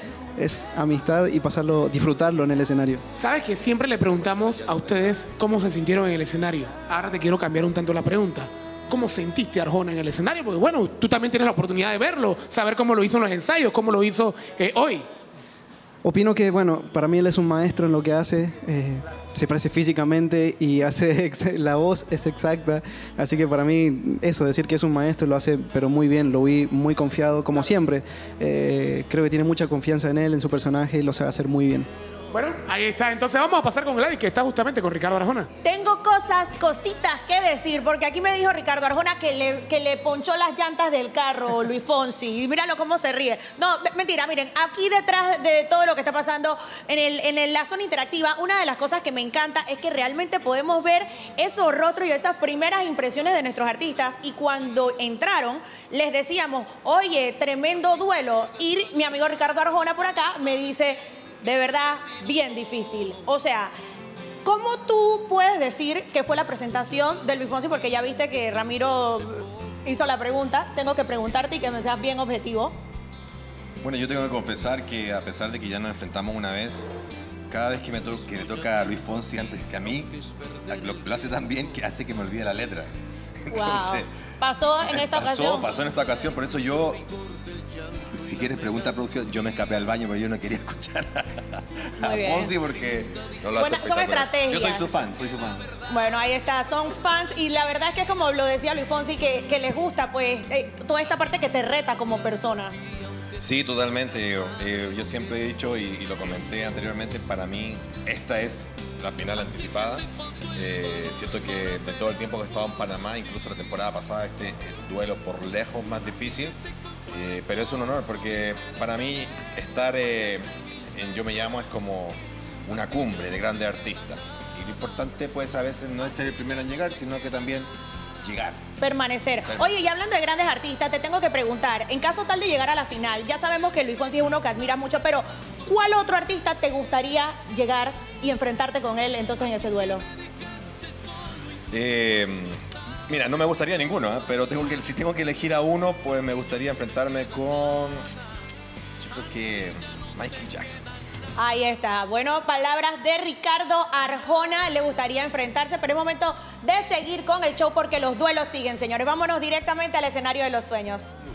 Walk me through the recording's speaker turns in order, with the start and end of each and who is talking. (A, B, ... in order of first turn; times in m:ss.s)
0:00.4-0:03.0 A
0:03.2-0:15.0 B
0:16.0-0:31.9 A
0:32.3-0:35.5 B
0:35.6-1:03.7 C
1:04.4-1:12.8 C
1:13.8-1:16.9 D
1:17.5-1:20.1 D
1:20.6-1:22.9 D
1:23.4-1:24.1 D
1:23.5-1:25.6 C
1:24.8-1:27.0 D
1:28.1-1:35.7 D
1:32.0-1:32.5 C
1:33.6-1:34.9 C
1:35.9-1:42.8 C
1:43.4-1:56.6 D
1:57.1-2:07.7 D
2:08.2-2:08.6 D
2:08.8-2:20.0 C
2:21.7-2:28.0 D
2:29.0-2:30.8 D
2:31.4-2:41.1 C